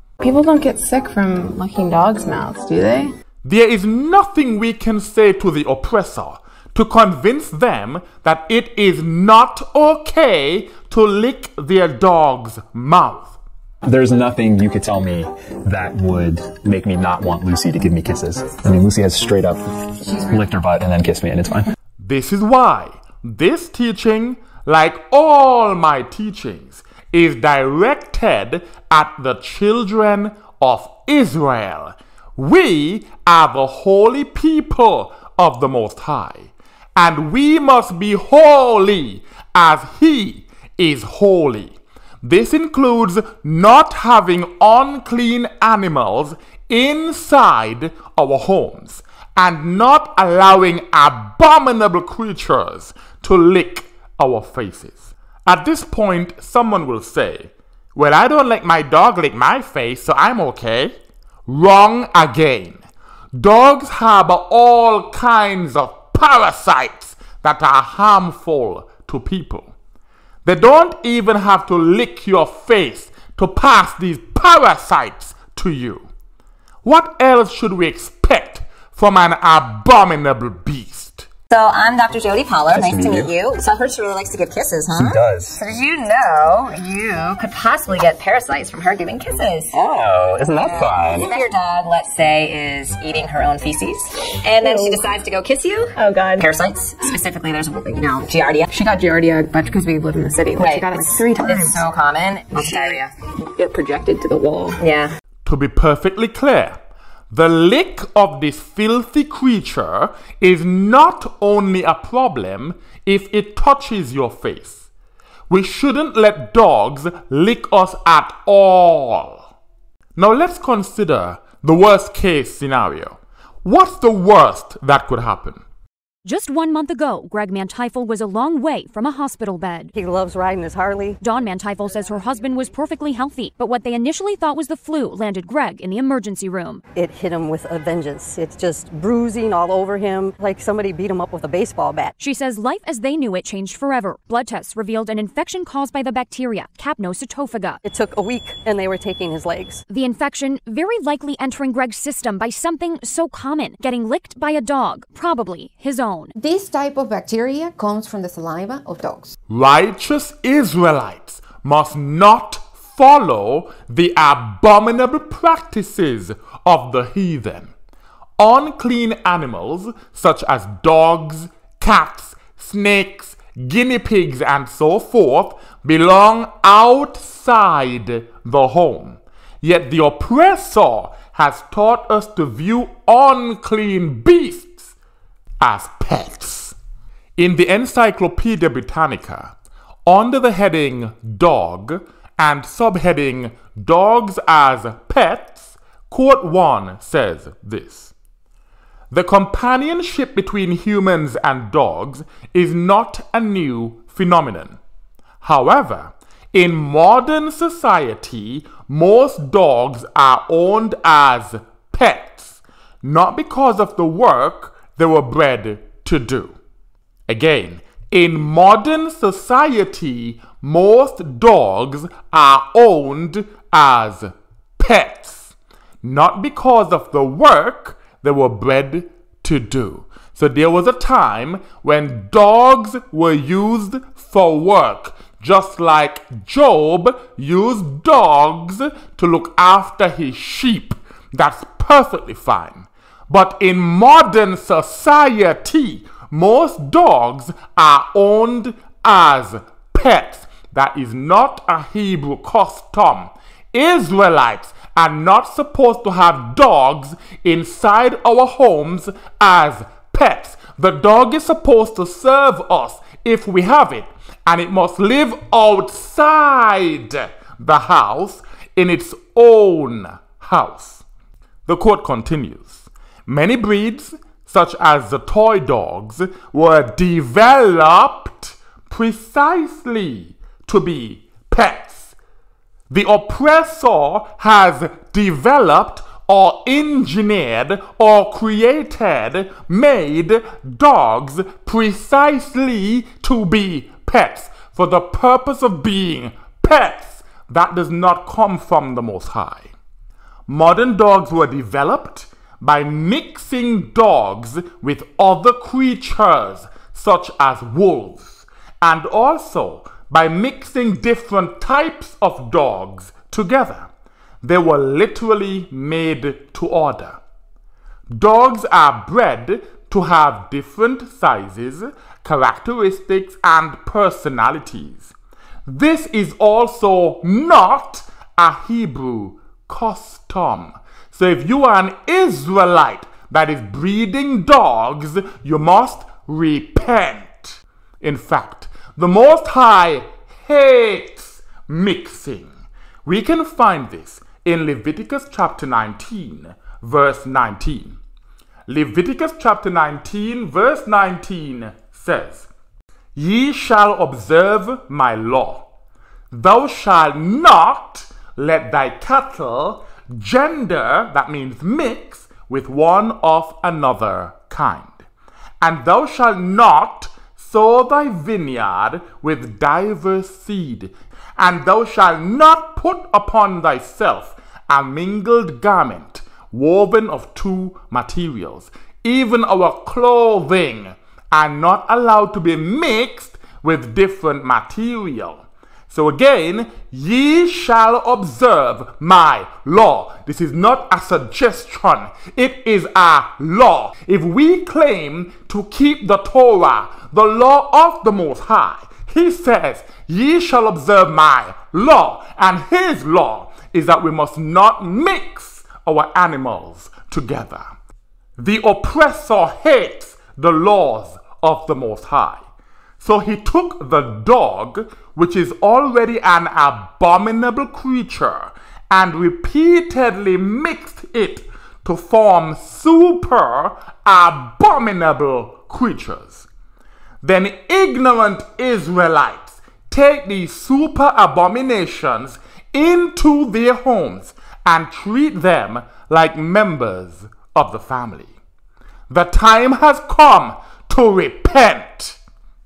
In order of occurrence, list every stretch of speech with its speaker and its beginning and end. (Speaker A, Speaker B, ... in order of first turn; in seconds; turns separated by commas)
Speaker A: 0.2-3.1, Speaker B: 3.4-13.4, Speaker C: 13.8-21.7, Speaker B: 22.0-61.0, Speaker B: 61.5-62.8, Speaker B: 63.3-69.7, Speaker B: 70.4-76.1, Speaker B: 76.8-81.3, Speaker D: 81.5-89.8, Speaker C: 82.7-83.3, Speaker C: 84.9-85.6, Speaker C: 89.7-91.3, Speaker D: 90.6-98.7, Speaker A: 94.5-95.0, Speaker A: 96.0-96.4, Speaker A: 98.7-101.8, Speaker D: 100.6-103.1, Speaker A: 102.5-104.8, Speaker D: 104.8-105.1, Speaker B: 105.4-106.8, Speaker B: 107.3-114.9, Speaker B: 115.5-119.5, Speaker B: 120.2-125.6, Speaker E: 126.2-129.9, Speaker F: 129.9-131.2, Speaker E: 131.2-136.8, Speaker F: 136.9-142.1, Speaker E: 142.2-147.8, Speaker F: 147.8-149.8, Speaker E: 149.9-156.3, Speaker G: 156.3-159.3, Speaker B: 159.5-167.7, Speaker B: 168.4-184.9, Speaker B: 185.6-186.7, Speaker B: 187.4-189.5, Speaker B: 190.1-198.1, Speaker B: 199.1-204.8, Speaker B: 205.4-216.6, Speaker B: 217.3-271.0, Speaker B: 271.6-282.1, Speaker B: 282.9-299.7, Speaker B: 300.5-313.9, Speaker B: 314.4-317.2, Speaker B: 318.1-325.1, Speaker B: 325.6-342.5, Speaker B: 343.1-348.0, Speaker B: 348.7-352.5, Speaker B: 353.1-355.6, Speaker B: 356.3-365.0, Speaker B: 365.6-407.6, Speaker B: 408.4-412.4, Speaker B: 413.0-426.5, Speaker B: 427.2-438.4, Speaker B: 439.1-442.2